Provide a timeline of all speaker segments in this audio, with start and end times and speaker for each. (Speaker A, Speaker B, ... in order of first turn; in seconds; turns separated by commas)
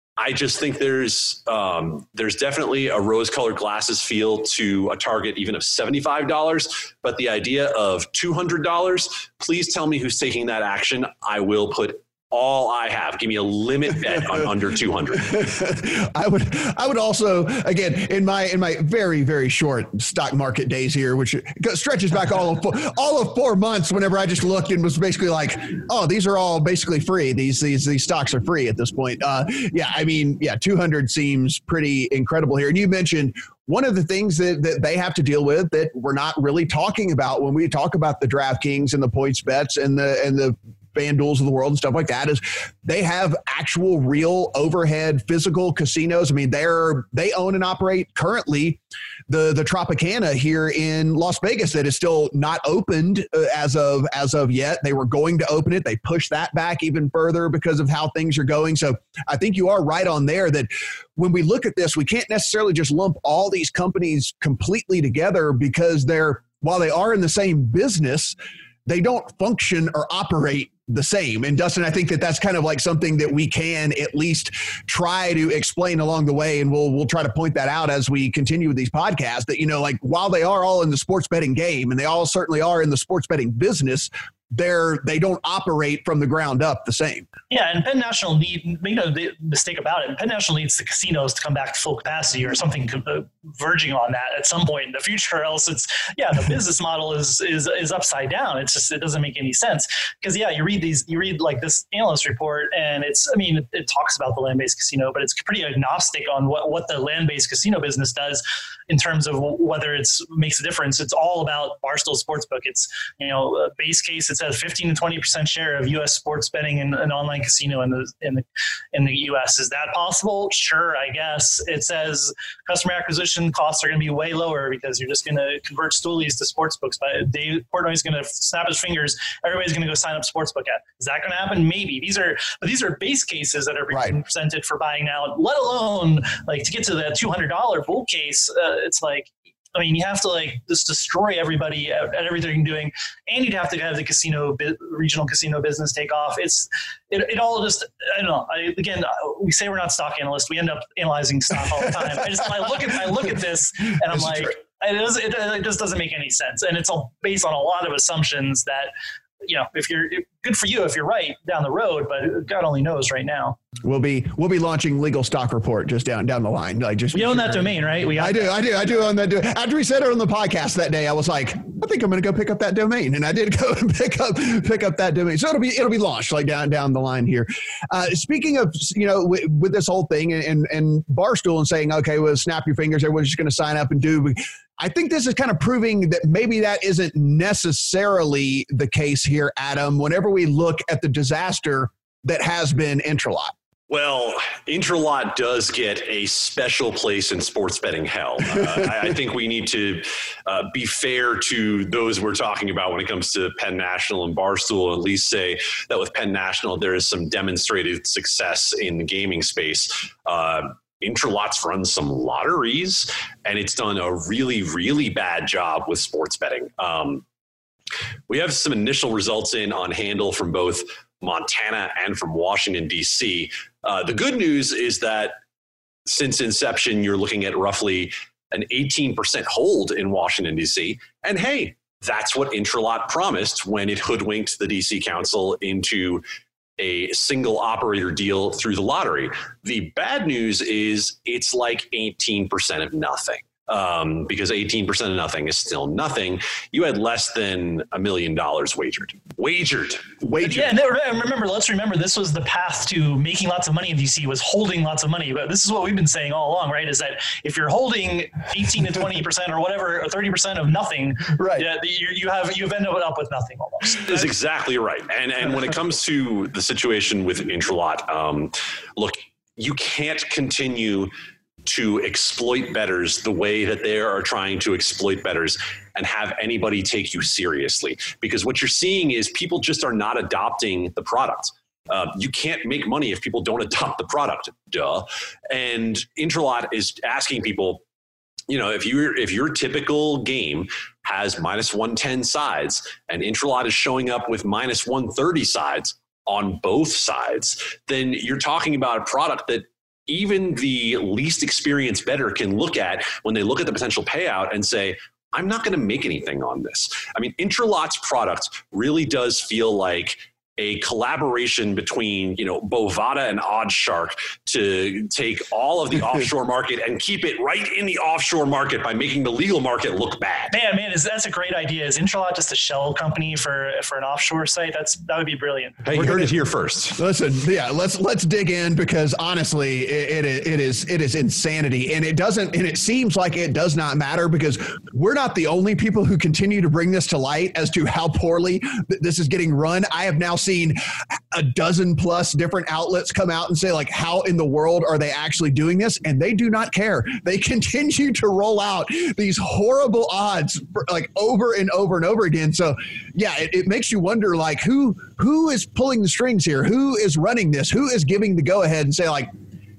Speaker A: 0.2-15.4, Speaker B: 15.2-87.3, Speaker C: 87.5-158.9, Speaker B: 133.9-134.2, Speaker B: 154.1-154.5, Speaker C: 159.4-163.6, Speaker B: 163.8-193.5, Speaker C: 167.1-168.7, Speaker A: 193.9-217.2, Speaker A: 218.3-225.4, Speaker A: 226.1-236.2, Speaker A: 236.8-250.2, Speaker B: 250.2-250.8, Speaker C: 250.4-264.3, Speaker B: 261.4-261.6, Speaker A: 264.1-271.1, Speaker A: 271.6-287.8, Speaker A: 288.5-320.5, Speaker C: 320.5-325.8, Speaker A: 325.9-327.0, Speaker B: 325.9-326.3, Speaker B: 327.0-340.8, Speaker B: 341.3-359.3